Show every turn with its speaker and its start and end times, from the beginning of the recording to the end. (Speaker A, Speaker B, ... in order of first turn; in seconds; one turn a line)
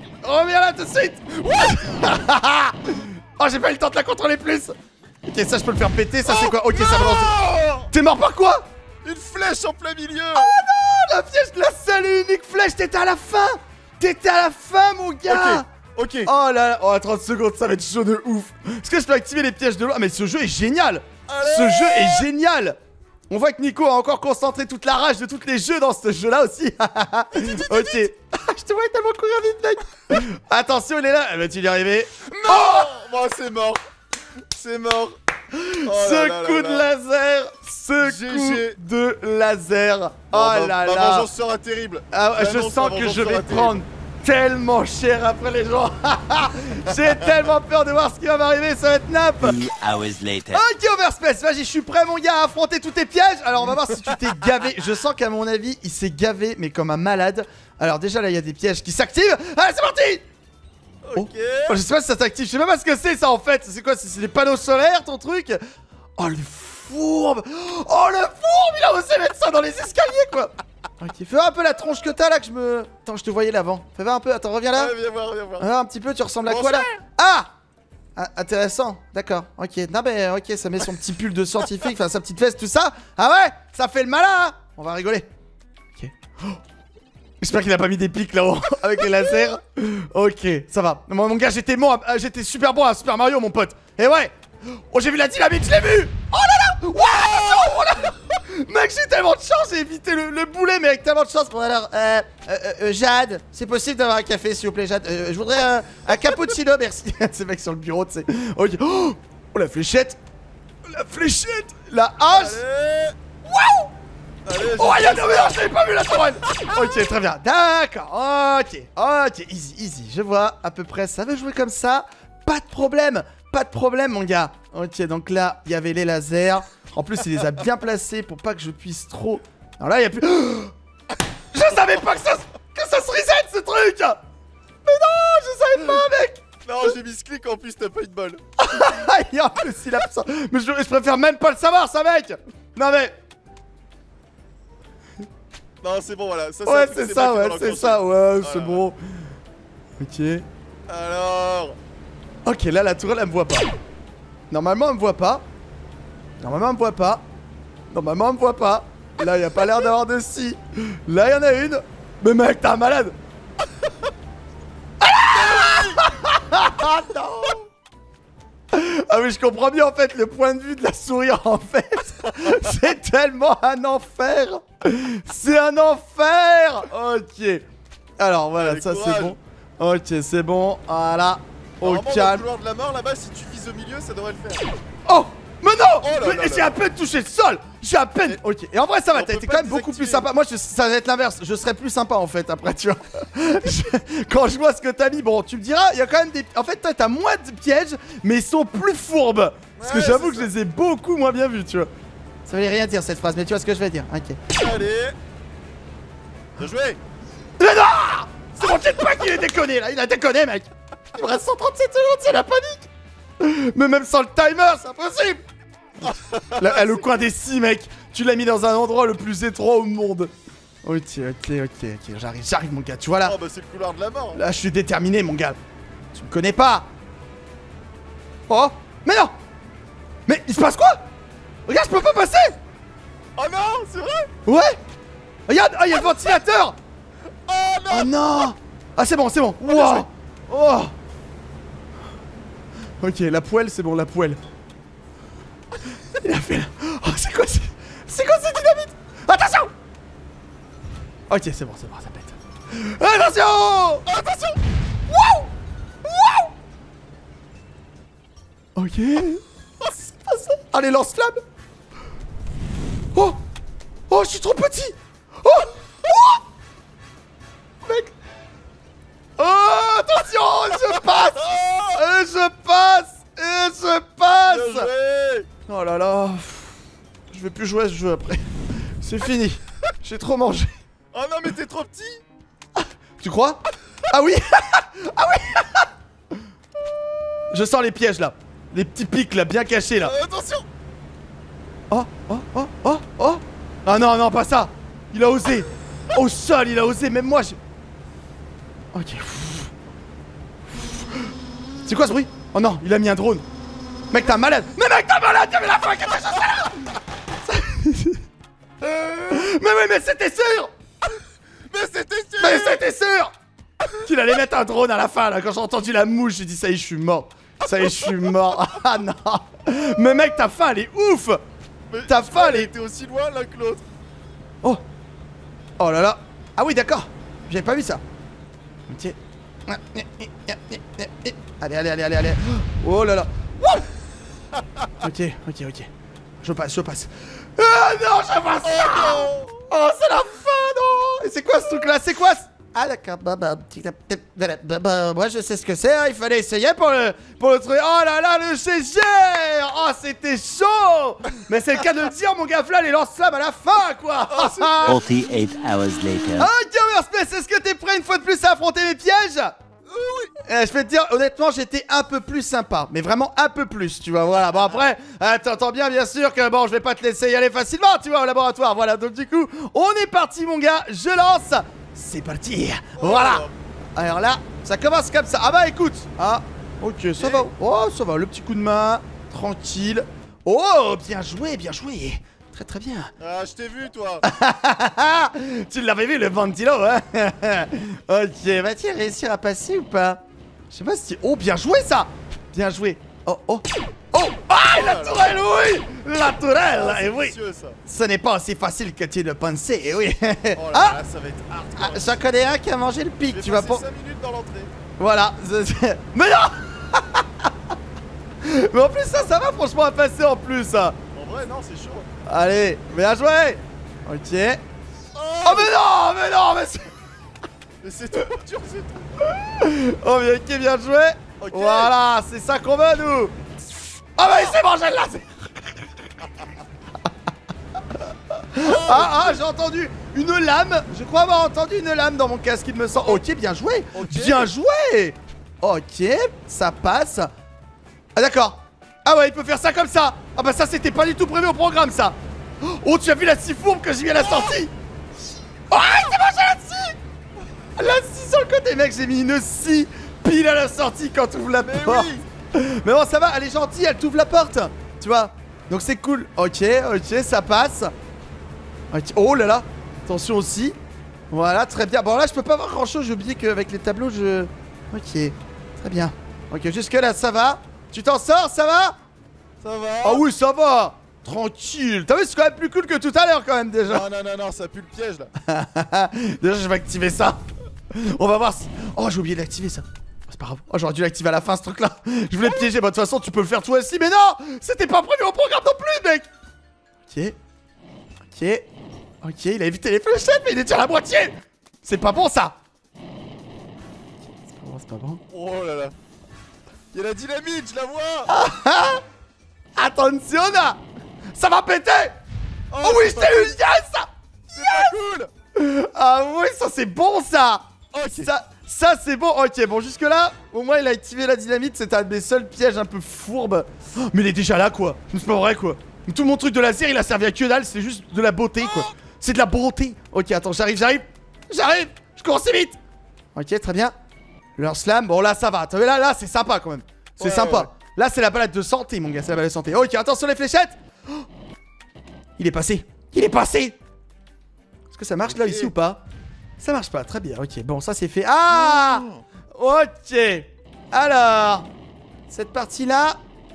Speaker A: 0.2-4.8
Speaker B: 1.4-2.0
Speaker A: 5.3-7.4
Speaker B: 6.3-7.9
Speaker A: 7.9-8.7
Speaker B: 9.0-10.6
Speaker A: 10.3-15.7
Speaker B: 15.3-16.3
Speaker A: 16.2-22.8
Speaker B: 21.3-22.3
Speaker A: 23.3-32.9
Speaker B: 27.3-28.1
Speaker B: 32.3-33.8
Speaker B: 34.5-35.2
Speaker A: 35.5-41.3
Speaker B: 35.9-36.9
Speaker B: 38.0-38.8
Speaker B: 40.3-43.8
Speaker A: 42.1-49.6
Speaker C: 49.4-50.6
Speaker A: 50.5-60.2
Speaker B: 53.7-54.2
Speaker B: 61.0-61.8
Speaker A: 61.2-65.6
Speaker A: 66.2-74.9
Speaker B: 74.8-75.7
Speaker A: 75.6-77.5
Speaker B: 76.5-77.0
Speaker A: 78.2-85.3
Speaker A: 86.0-86.6
Speaker A: 87.4-110.2
Speaker A: 110.9-112.6
Speaker B: 112.3-113.2
Speaker A: 113.5-113.9
Speaker B: 114.5-115.6
Speaker A: 114.6-130.7
Speaker B: 116.5-117.0
Speaker A: 131.5-134.2
Speaker A: 134.8-136.4
Speaker B: 136.7-138.4
Speaker A: 138.6-143.2
Speaker B: 145.8-148.8
Speaker A: 146.7-149.0
Speaker A: 150.0-150.4
Speaker B: 150.9-151.8
Speaker A: 152.4-153.7
Speaker A: 154.5-155.4
Speaker A: 156.4-157.2
Speaker A: 157.9-163.2
Speaker A: 165.0-167.6
Speaker B: 165.4-166.0
Speaker A: 168.7-177.6
Speaker A: 178.2-182.4
Speaker B: 178.6-179.4
Speaker B: 181.8-184.8
Speaker A: 185.1-201.9
Speaker B: 186.0-186.7
Speaker B: 189.1-190.3
Speaker B: 199.8-200.5
Speaker A: 202.5-204.4
Speaker B: 204.5-205.2
Speaker B: 206.6-207.0
Speaker A: 207.6-212.9
Speaker A: 213.4-215.4
Speaker A: 216.0-220.3
Speaker B: 216.0-217.0
Speaker A: 220.8-223.4
Speaker B: 223.2-224.4
Speaker A: 224.3-225.6
Speaker A: 226.1-226.9
Speaker A: 228.5-229.3
Speaker A: 230.3-231.0
Speaker A: 231.7-232.6
Speaker B: 233.4-234.3
Speaker A: 234.5-234.8
Speaker A: 235.5-236.8
Speaker B: 237.5-238.1
Speaker A: 237.9-240.9
Speaker B: 239.7-240.1
Speaker A: 243.0-244.4
Speaker A: 246.2-249.7
Speaker A: 251.3-254.1
Speaker B: 254.1-254.6
Speaker A: 255.1-255.5
Speaker A: 256.1-256.5
Speaker A: 258.8-259.4
Speaker A: 260.1-261.4
Speaker A: 264.1-266.4
Speaker A: 267.9-268.1
Speaker A: 269.4-274.9
Speaker B: 270.9-272.0
Speaker B: 274.5-275.5
Speaker A: 275.7-276.7
Speaker A: 277.3-278.5
Speaker A: 279.0-280.7
Speaker B: 281.1-282.2
Speaker A: 282.8-285.9
Speaker A: 287.5-290.1
Speaker B: 290.0-290.7
Speaker A: 291.9-297.6
Speaker A: 298.9-299.7
Speaker A: 300.8-301.3
Speaker A: 301.9-303.4
Speaker A: 304.1-306.9
Speaker A: 307.4-308.2
Speaker A: 308.8-310.7
Speaker B: 311.7-312.8
Speaker A: 312.4-313.3
Speaker A: 314.0-321.4
Speaker B: 321.9-323.8
Speaker A: 322.1-322.7
Speaker A: 325.8-328.0
Speaker A: 328.9-329.2
Speaker A: 329.7-333.9
Speaker A: 335.0-335.9
Speaker A: 336.4-355.0
Speaker B: 338.6-339.6
Speaker B: 354.3-355.0
Speaker C: 354.9-356.5
Speaker A: 356.4-359.5
Speaker B: 359.9-360.4
Speaker A: 360.5-383.1
Speaker B: 373.0-373.5
Speaker B: 377.2-377.5
Speaker B: 383.2-384.2
Speaker A: 384.2-397.3
Speaker B: 394.6-395.4
Speaker B: 396.7-397.8
Speaker A: 397.9-401.0
Speaker B: 400.6-402.2
Speaker A: 401.8-403.8
Speaker B: 403.3-404.7
Speaker A: 405.0-407.5
Speaker A: 408.4-411.0
Speaker B: 411.1-412.1
Speaker A: 412.3-414.6
Speaker B: 415.1-415.8
Speaker A: 415.4-416.9
Speaker B: 417.8-419.1
Speaker A: 419.3-423.3
Speaker B: 421.4-421.9
Speaker A: 424.2-425.5
Speaker A: 428.5-437.3
Speaker B: 428.6-429.4
Speaker B: 432.9-433.2
Speaker B: 433.9-434.5
Speaker A: 438.2-444.7
Speaker A: 445.7-447.0
Speaker A: 447.8-457.9
Speaker B: 451.6-452.2
Speaker A: 458.9-460.8
Speaker A: 461.3-469.0
Speaker B: 469.6-470.2
Speaker A: 470.0-474.1
Speaker B: 473.9-475.3
Speaker A: 475.4-477.4
Speaker A: 477.9-486.3
Speaker A: 487.1-487.4
Speaker A: 488.3-488.7
Speaker A: 489.2-492.6
Speaker A: 494.5-495.2
Speaker B: 495.3-495.9
Speaker B: 496.9-498.4
Speaker A: 498.3-499.0
Speaker A: 499.8-500.8
Speaker A: 501.3-502.1
Speaker B: 502.7-503.6
Speaker A: 502.8-504.9
Speaker B: 504.5-505.3
Speaker A: 505.6-522.8
Speaker B: 507.9-508.3
Speaker A: 523.4-523.9
Speaker A: 524.6-531.2
Speaker B: 527.2-527.7
Speaker A: 532.4-533.8
Speaker A: 534.9-536.0
Speaker B: 535.3-535.7
Speaker A: 536.6-541.7
Speaker B: 538.5-539.2
Speaker A: 542.3-543.2